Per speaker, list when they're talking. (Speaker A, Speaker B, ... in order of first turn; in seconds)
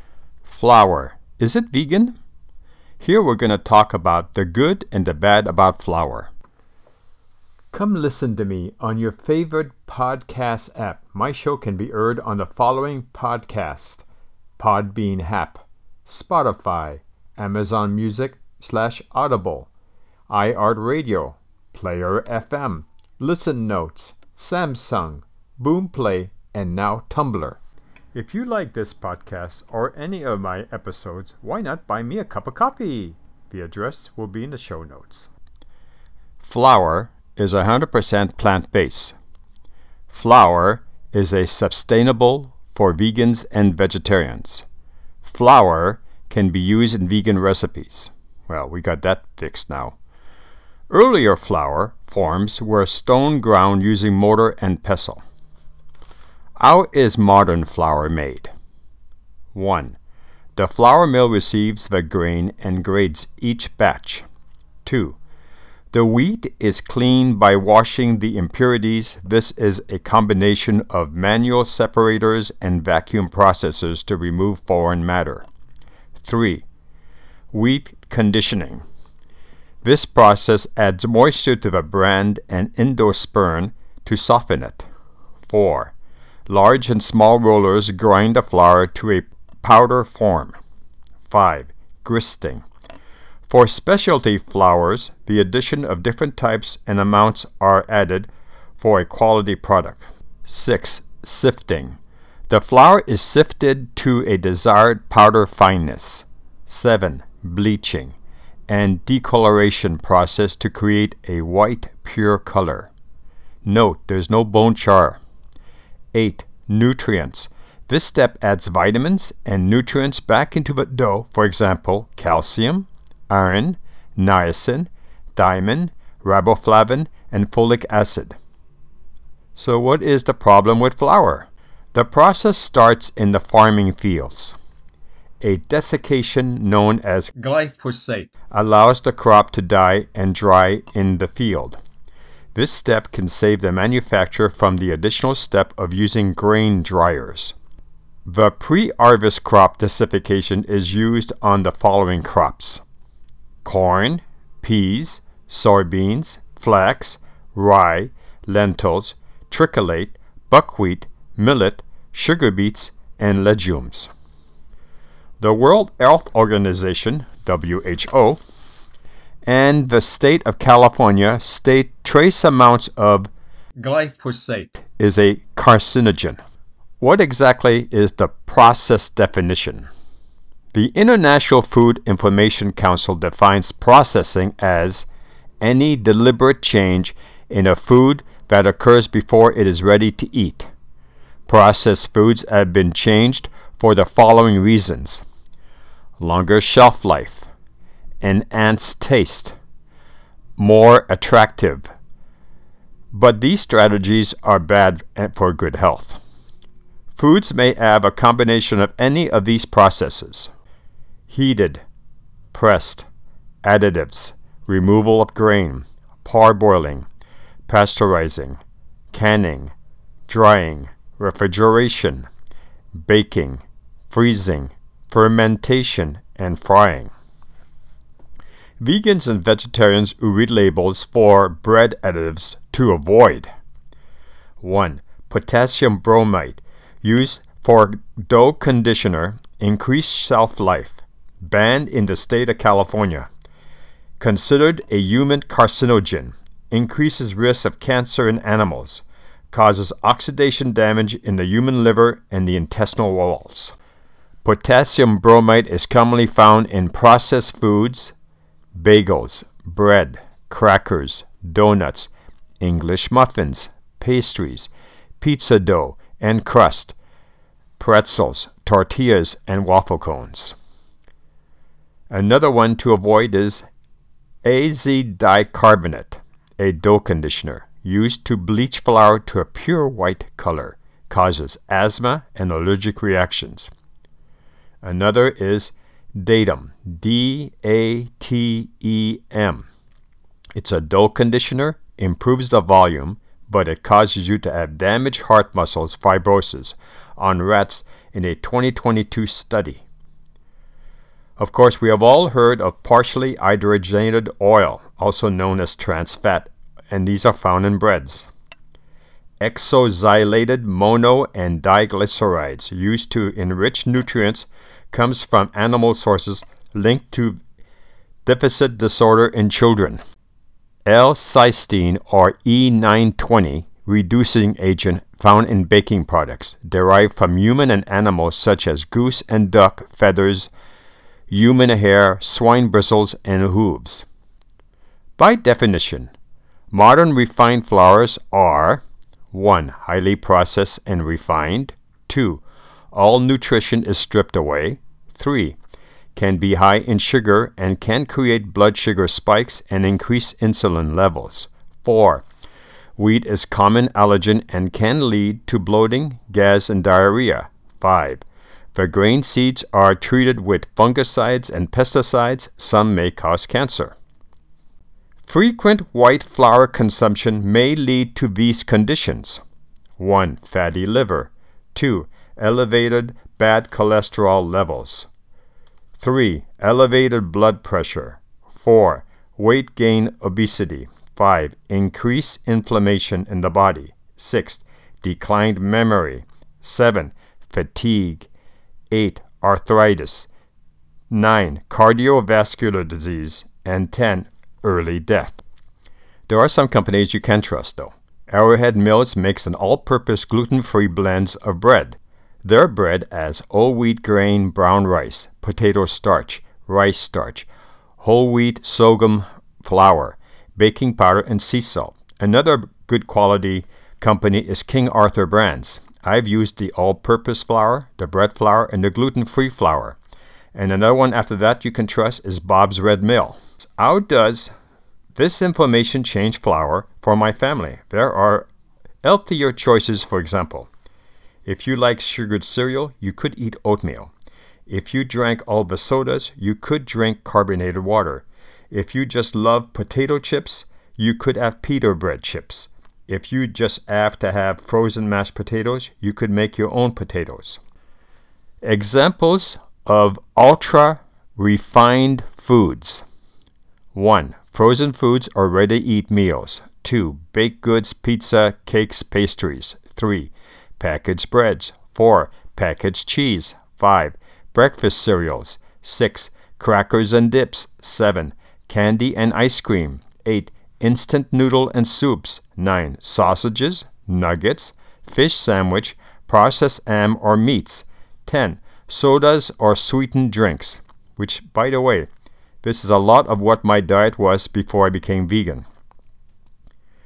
Speaker A: 0.5-2.2, 3.0-6.3, 7.7-14.1, 14.6-19.7, 20.3-27.6, 28.1-35.3, 36.4-39.2, 40.1-44.7, 45.2-50.0, 50.9-55.2, 56.6-58.5, 59.5-60.0, 60.6-64.2, 64.8-65.2, 65.9-75.5, 76.2-76.7, 77.5-78.8, 79.8-84.9, 85.5-85.9, 86.5-90.6, 91.2-92.7, 93.5-102.0, 102.5-108.2, 108.7-112.9, 113.7-115.2, 116.1-128.4, 129.6-134.6, 135.4-141.8, 142.6-147.6, 148.3-152.8, 153.6-164.1, 165.4-168.4, 169.5-176.4, 177.0-179.9, 180.7-185.1, 185.6-190.7, 191.5-195.2, 196.2-197.5, 198.2-199.6, 200.6-201.9, 203.1-206.2, 207.2-210.5, 211.3-211.8, 212.5-213.1, 213.6-217.1, 217.7-218.6, 219.1-219.7, 220.3-222.3, 222.9-227.1, 228.8-233.5, 234.6-243.3, 244.2-253.7, 254.4-258.1, 258.7-267.0, 267.8-270.6, 272.1-273.7, 274.4-283.7, 284.8-289.7, 290.6-299.8, 301.4-308.3, 309.4-317.4, 318.3-320.0, 320.9-330.5, 331.3-334.1, 335.2-336.1, 336.7-345.6, 346.1-352.2, 353.0-358.2, 358.7-364.0, 365.2-369.4, 370.0-375.1, 376.0-388.3, 388.9-390.3, 391.1-395.4, 396.3-407.5, 408.0-420.0, 420.5-424.5, 425.2-428.5, 429.0-430.7, 431.4-434.1, 434.7-447.6, 448.6-453.0, 453.9-482.1, 482.6-485.7